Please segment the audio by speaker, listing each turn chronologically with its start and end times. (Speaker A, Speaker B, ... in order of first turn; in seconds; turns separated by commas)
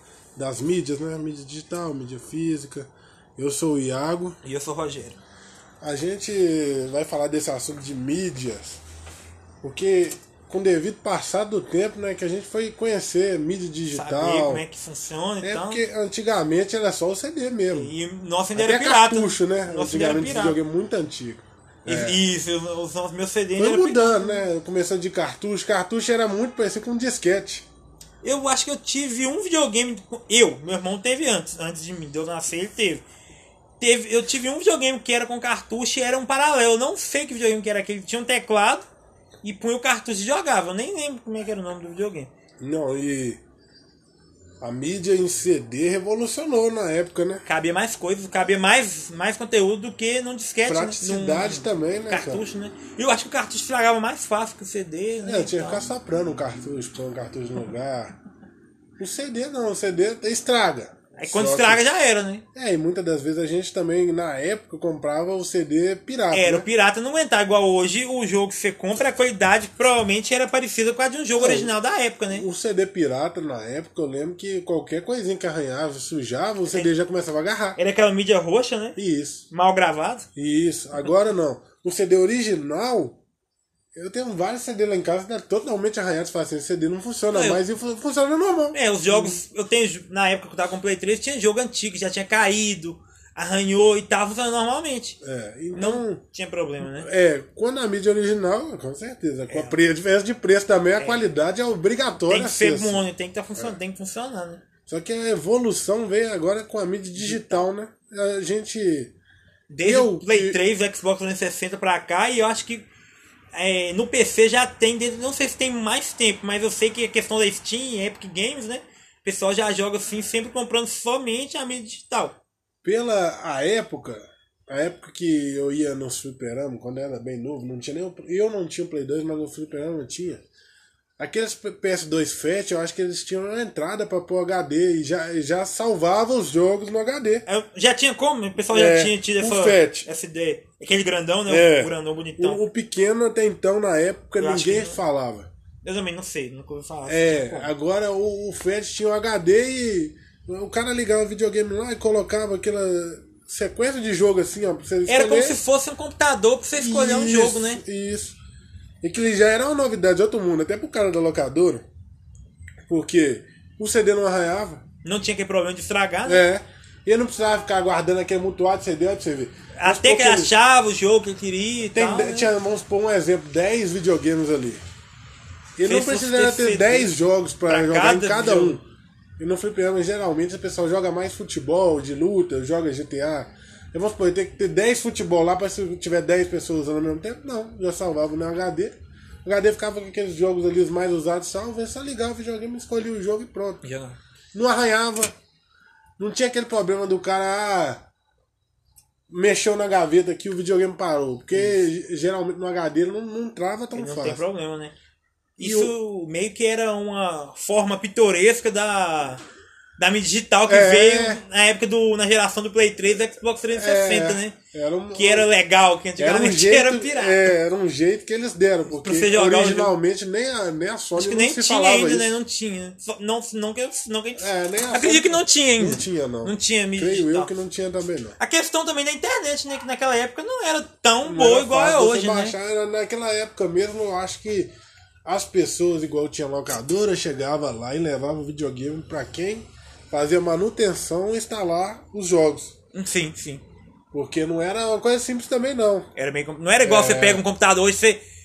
Speaker A: 0.3-4.4, Speaker B: 4.4-5.2, Speaker A: 5.8-8.8, Speaker A: 9.6-14.6, Speaker B: 13.9-15.8, Speaker A: 15.4-17.9, Speaker B: 17.7-20.6, Speaker A: 18.6-22.2, Speaker B: 21.9-24.4, Speaker A: 23.6-27.6, Speaker B: 28.2-33.0, Speaker B: 33.8-38.9, Speaker B: 39.4-42.3, Speaker A: 42.6-43.4, Speaker A: 44.6-47.4, Speaker B: 47.5-55.9, Speaker A: 50.6-52.4, Speaker A: 55.2-58.1, Speaker A: 59.0-61.9, Speaker B: 61.1-62.4, Speaker A: 62.5-66.7, Speaker B: 66.3-72.5, Speaker A: 71.3-71.7, Speaker A: 72.3-77.8, Speaker B: 77.8-79.0, Speaker A: 79.0-79.5, Speaker B: 79.5-80.2, Speaker A: 80.3-83.2, Speaker A: 83.9-89.4, Speaker B: 87.3-87.6, Speaker B: 88.7-95.2, Speaker A: 95.2-96.2, Speaker B: 95.7-97.1, Speaker A: 96.8-103.0, Speaker B: 99.5-99.8, Speaker B: 101.0-101.2, Speaker B: 102.2-104.6, Speaker A: 104.9-109.1, Speaker B: 107.2-107.7, Speaker B: 109.7-112.8, Speaker A: 109.8-110.6, Speaker B: 113.5-122.4, Speaker A: 122.8-130.4, Speaker A: 131.2-137.4, Speaker B: 137.4-142.6, Speaker A: 138.7-140.1, Speaker A: 141.5-145.5, Speaker B: 144.4-145.0, Speaker B: 145.8-147.7, Speaker A: 147.1-155.6, Speaker B: 155.1-157.8, Speaker A: 156.7-158.4, Speaker A: 159.0-161.8, Speaker A: 162.8-164.8, Speaker B: 165.0-166.4, Speaker A: 166.2-170.5, Speaker B: 169.8-172.5, Speaker A: 171.9-174.8, Speaker A: 175.8-178.8, Speaker B: 175.8-177.1, Speaker B: 177.7-178.8, Speaker A: 179.4-193.8, Speaker B: 193.8-194.2, Speaker A: 194.5-195.3, Speaker A: 196.2-198.0, Speaker A: 199.3-204.4, Speaker B: 201.5-201.8, Speaker B: 203.9-204.9, Speaker B: 205.6-209.4, Speaker A: 205.6-205.9, Speaker B: 210.0-214.6, Speaker A: 210.7-211.4, Speaker A: 213.7-215.5, Speaker B: 215.1-217.5, Speaker A: 216.2-222.3, Speaker B: 218.9-219.9, Speaker B: 221.2-227.5, Speaker A: 224.3-228.4, Speaker B: 228.4-232.5, Speaker A: 231.2-234.7, Speaker A: 235.2-242.7, Speaker B: 242.9-243.6, Speaker A: 244.1-246.1, Speaker B: 246.2-248.2, Speaker A: 246.8-247.4